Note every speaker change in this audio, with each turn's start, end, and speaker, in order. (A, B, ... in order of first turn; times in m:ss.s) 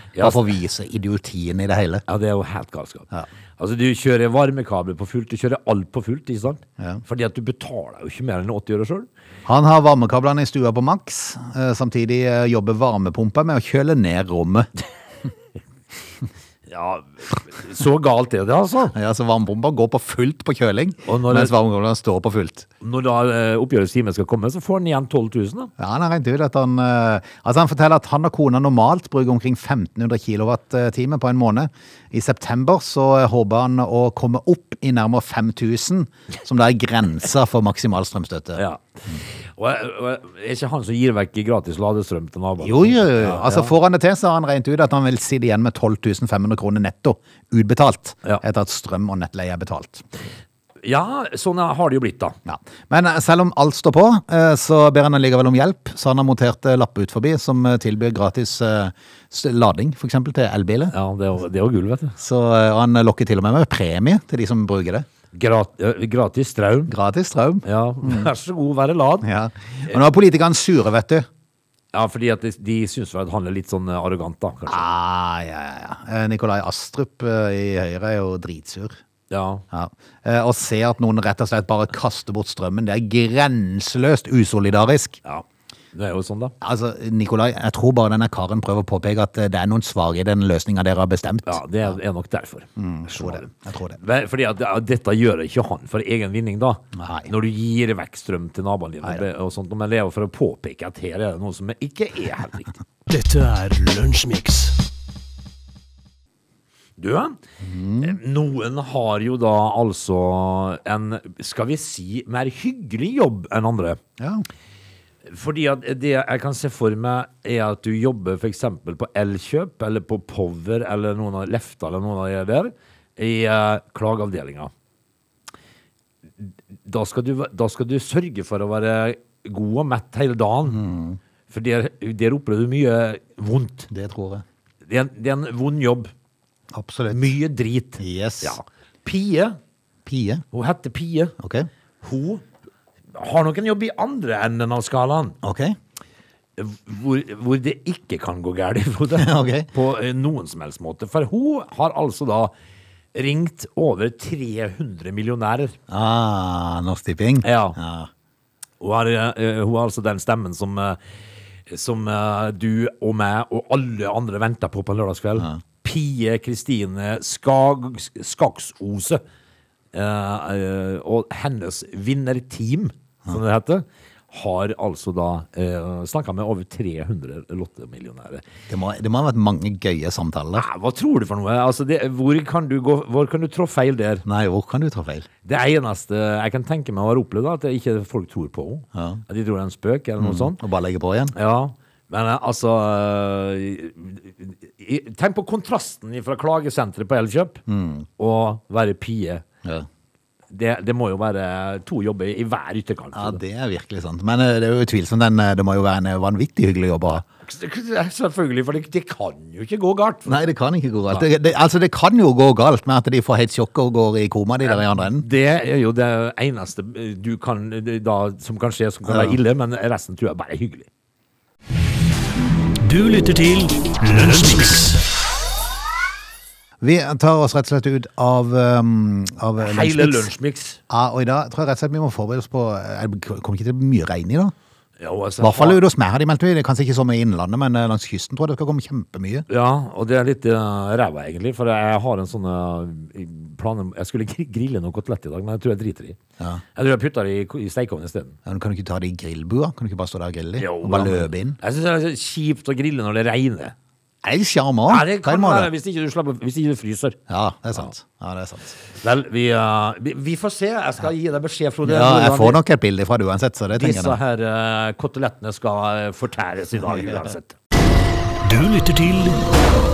0:00.1-0:00.5 A
0:00.2-0:02.0 B
0:02.1-0:09.1 A
0:09.5-0:14.7 B
0:16.7-0:19.0 A
0:18.9-0:22.7 B
0:21.1-0:21.5 A
0:22.8-0:25.7 A
0:25.8-0:39.2 B
0:38.6-0:43.7 A
0:42.6-0:50.0 B
0:50.8-0:52.4 A
0:52.5-1:00.9 B
1:00.9-1:02.2 A
1:02.2-1:05.1 B
1:05.3-1:06.9 A
1:06.9-1:08.3 B
1:07.6-1:09.3 A
1:09.2-1:11.3 B
1:11.9-1:14.9 A
1:14.7-1:19.0 B
1:19.3-1:19.6 A
1:19.7-1:25.2 B
1:25.2-1:26.6 A
1:26.6-1:31.6 B
1:31.5-1:42.8 A
1:32.8-1:34.0 B
1:37.0-1:37.3 B
1:43.1-1:44.8 C
1:47.0-1:47.4 A
1:47.6-1:48.2 B
1:48.0-1:54.0 A
1:54.2-1:54.4 B
1:55.3-2:04.7 A
2:06.4-2:10.8 A
2:10.7-2:11.2 B
2:11.5-2:13.9 A
2:13.9-2:14.4 B
2:14.9-2:16.1 A
2:16.7-2:17.3 B
2:17.1-2:19.6 A
2:18.0-2:18.6 B
2:20.1-2:20.4 B
2:20.5-2:21.4 A
2:21.4-2:21.7 B
2:22.0-2:22.4 A
2:23.1-2:25.4 A
2:25.4-2:25.8 B
2:26.6-2:32.5 A
2:29.2-2:29.7 B
2:33.1-2:35.8 A
2:35.9-2:38.1 B
2:37.4-2:37.8 A
2:38.8-2:41.0 A
2:41.7-2:49.2 A
2:49.9-2:58.4 A
2:58.7-3:00.7 B
3:00.6-3:04.2 A
3:04.2-3:05.3 B
3:05.4-3:10.6 A
3:08.9-3:09.2 B
3:10.2-3:11.3 B
3:11.3-3:17.6 A
3:17.7-3:18.1 B
3:18.2-3:19.4 A
3:20.5-3:23.4 A
3:23.1-3:27.2 B
3:27.4-3:30.4 A
3:30.3-3:35.3 B
3:34.6-3:40.9 A
3:39.1-3:39.4 B
3:42.8-3:45.0 C
3:46.8-3:50.3 B
3:49.6-3:50.8 A
3:50.9-3:54.5 B
3:55.0-3:55.8 A
3:55.4-3:59.5 B
3:59.5-4:06.2 A
4:06.8-4:08.4 A
4:08.5-4:11.6 B
4:10.6-4:13.8 A
4:14.2-4:15.7 B
4:14.9-4:17.2 A
4:17.3-4:18.8 B
4:19.0-4:22.6 A
4:21.8-4:24.2 B
4:23.7-4:27.5 A
4:28.4-4:29.4 C